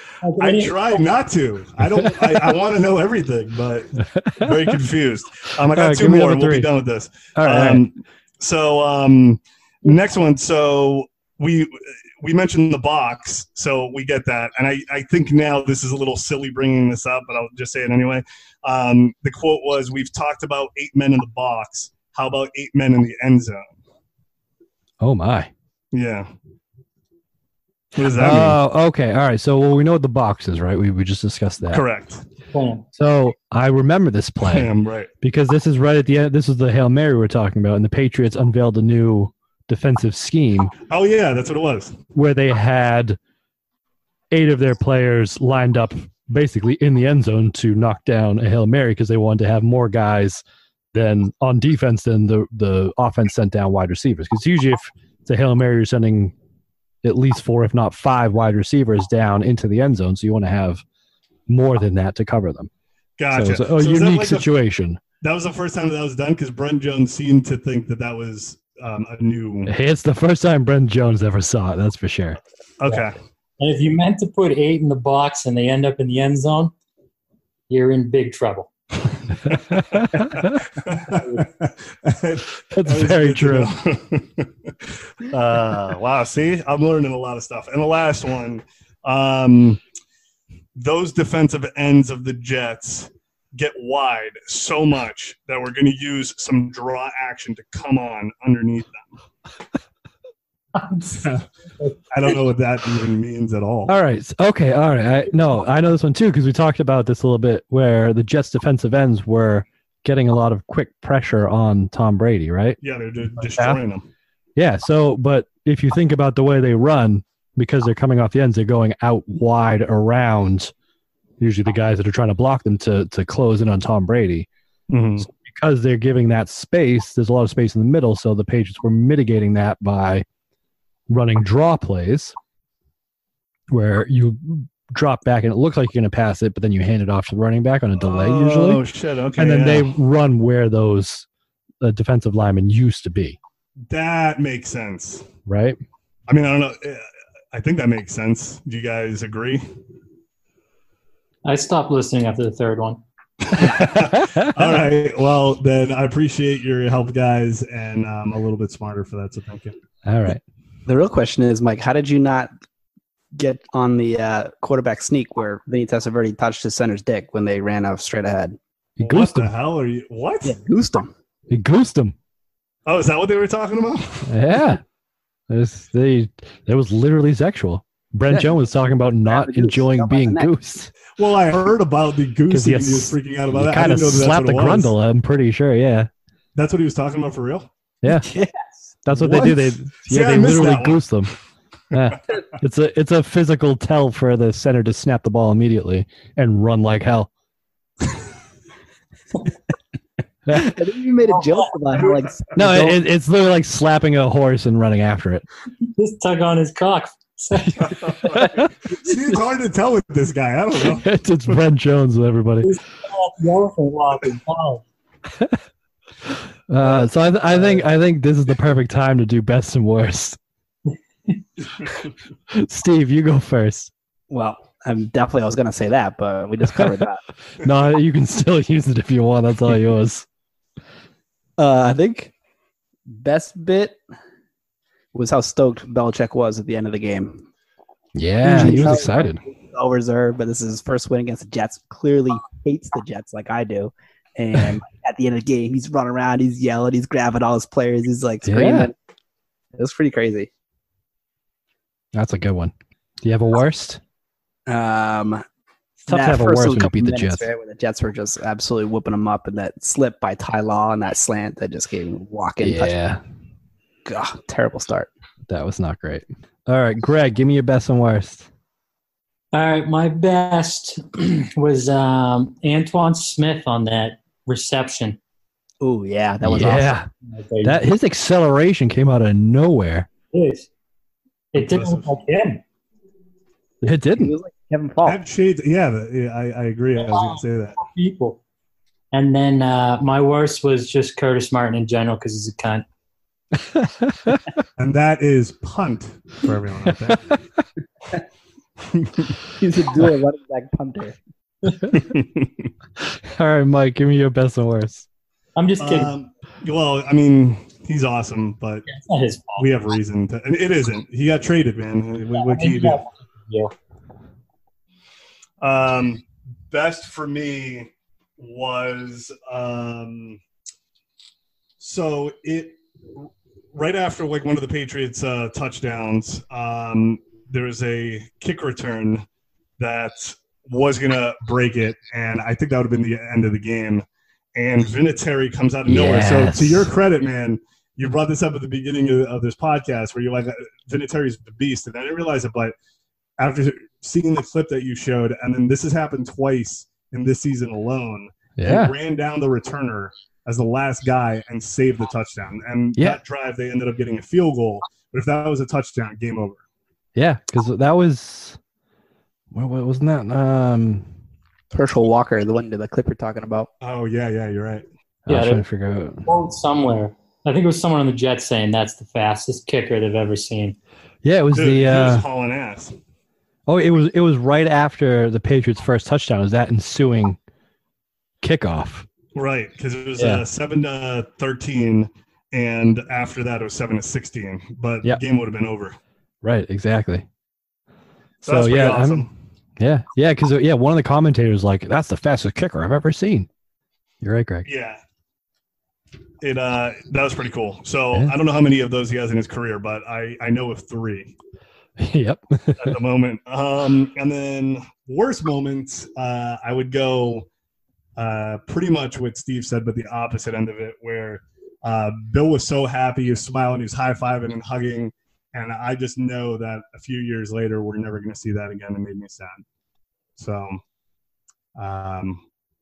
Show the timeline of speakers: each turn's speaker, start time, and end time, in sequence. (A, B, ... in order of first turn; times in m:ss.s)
0:00.2-0:01.0 A
0:00.4-0:23.7 B
0:04.2-0:04.5 C
0:05.7-0:06.7 C
0:07.3-0:07.8 C
0:25.0-0:25.5 C
0:25.9-0:26.3 B
0:27.9-0:28.6 B
0:28.1-0:31.8 C
0:31.7-0:32.2 B
0:32.5-0:32.8 A
0:32.9-0:40.7 C
0:34.5-0:35.1 B
0:40.8-0:42.0 B
0:42.1-0:43.2 C
0:44.3-0:50.4 C
0:50.9-0:56.3 C
0:57.0-1:00.8 C
1:01.5-1:02.7 C
1:03.2-1:04.5 B
1:03.3-1:05.0 C
1:05.2-1:09.7 B
1:09.7-1:12.4 C
1:12.8-1:13.2 B
1:13.6-1:16.7 A
1:17.7-1:18.7 A
1:19.5-1:29.8 B
1:22.7-1:23.7 C
1:30.8-1:39.1 B
1:40.7-1:41.2 A
1:42.1-1:43.9 B
1:43.9-1:52.8 C
1:52.8-1:54.0 B
1:54.6-2:00.7 C
2:01.4-2:04.5 C
2:04.9-2:05.3 B
2:05.2-2:10.2 C
2:11.1-2:12.3 C
2:13.7-2:18.8 C
2:18.0-2:19.9 B
2:19.4-2:21.2 C
2:21.8-2:23.4 C
2:23.9-2:25.3 B
2:25.4-2:25.8 C
2:26.3-2:29.6 B
2:31.4-2:33.0 A
2:33.4-2:39.8 B
2:33.6-2:34.5 C
2:40.0-2:40.4 C
2:40.8-2:42.5 D
2:43.3-2:48.6 D
2:49.0-2:49.5 C
2:49.0-2:50.6 B
2:50.4-2:51.1 D
2:51.5-2:52.1 C
2:52.8-2:54.3 B
2:54.2-2:54.8 C
2:55.5-3:00.9 C
2:59.3-3:00.5 D
3:01.2-3:04.9 B
3:02.5-3:06.1 C
3:06.5-3:07.7 B
3:08.0-3:08.3 C
3:08.1-3:08.8 D
3:09.0-3:11.3 C
3:09.1-3:11.0 B
3:11.9-3:17.3 C
3:20.5-3:20.7 C
3:20.5-3:23.0 D
3:21.3-3:22.2 A
3:22.5-3:25.4 C
3:25.9-3:28.4 A
3:27.8-3:31.1 B
3:28.2-3:28.7 C
3:30.9-3:32.7 C
3:32.6-3:34.8 A
3:36.7-3:40.4 C
3:42.5-3:43.9 C
3:44.3-3:47.2 D
3:47.6-3:50.2 C
3:51.6-3:52.3 D
3:53.1-3:54.0 D
3:55.1-3:57.4 D
3:58.1-3:59.4 C
3:58.4-4:08.9 D
4:08.4-4:08.9 C
4:09.7-4:10.5 D
4:12.1-4:14.0 C
4:14.7-4:15.4 D
4:16.0-4:22.9 D
4:16.1-4:17.5 C
4:22.6-4:23.2 C
4:24.0-4:25.1 D
4:25.5-4:28.5 C
4:29.5-4:35.2 A
4:35.8-4:36.9 D
4:36.4-4:37.1 C
4:37.2-4:37.8 A
4:37.6-4:40.1 C
4:40.3-4:40.7 A
4:41.5-4:42.6 A
4:41.6-4:42.1 B
4:43.8-4:44.3 C
4:44.2-4:45.2 D
4:45.0-4:47.8 B
4:47.1-4:48.4 A
4:49.1-4:52.8 A
4:53.6-4:54.4 C
4:54.8-4:57.2 B
4:59.0-4:59.3 B
4:59.6-5:01.2 D
5:01.8-5:02.1 C
5:01.9-5:02.5 B
5:03.0-5:05.0 C
5:05.6-5:06.1 A
5:05.8-5:08.9 B
5:08.9-5:09.7 A
5:09.6-5:13.0 B
5:12.3-5:13.7 A
5:15.6-5:20.4 B
5:21.8-5:29.2 B
5:29.8-5:42.7 B
5:35.9-5:36.9 C
5:43.4-5:56.6 B
5:48.6-5:48.9 C
5:52.9-5:53.2 C
5:57.1-5:58.6 C
5:59.5-6:01.0 C
6:01.7-6:03.7 D
6:03.8-6:04.8 B
6:05.2-6:06.2 C
6:05.3-6:05.6 A
6:06.2-6:10.8 A
6:11.2-6:12.2 C
6:11.5-6:12.9 B
6:13.7-6:17.4 C
6:18.4-6:19.0 C
6:19.3-6:26.0 B
6:20.2-6:20.4 C
6:26.4-6:27.2 C
6:28.4-6:29.3 B
6:28.4-6:29.3 C
6:29.8-6:33.5 C
6:34.2-6:34.7 C
6:34.6-6:35.0 B
6:36.4-6:41.3 B
6:42.0-6:43.0 C
6:42.8-6:47.5 B
6:48.2-6:59.6 B
7:00.4-7:00.8 B
7:01.8-7:02.4 B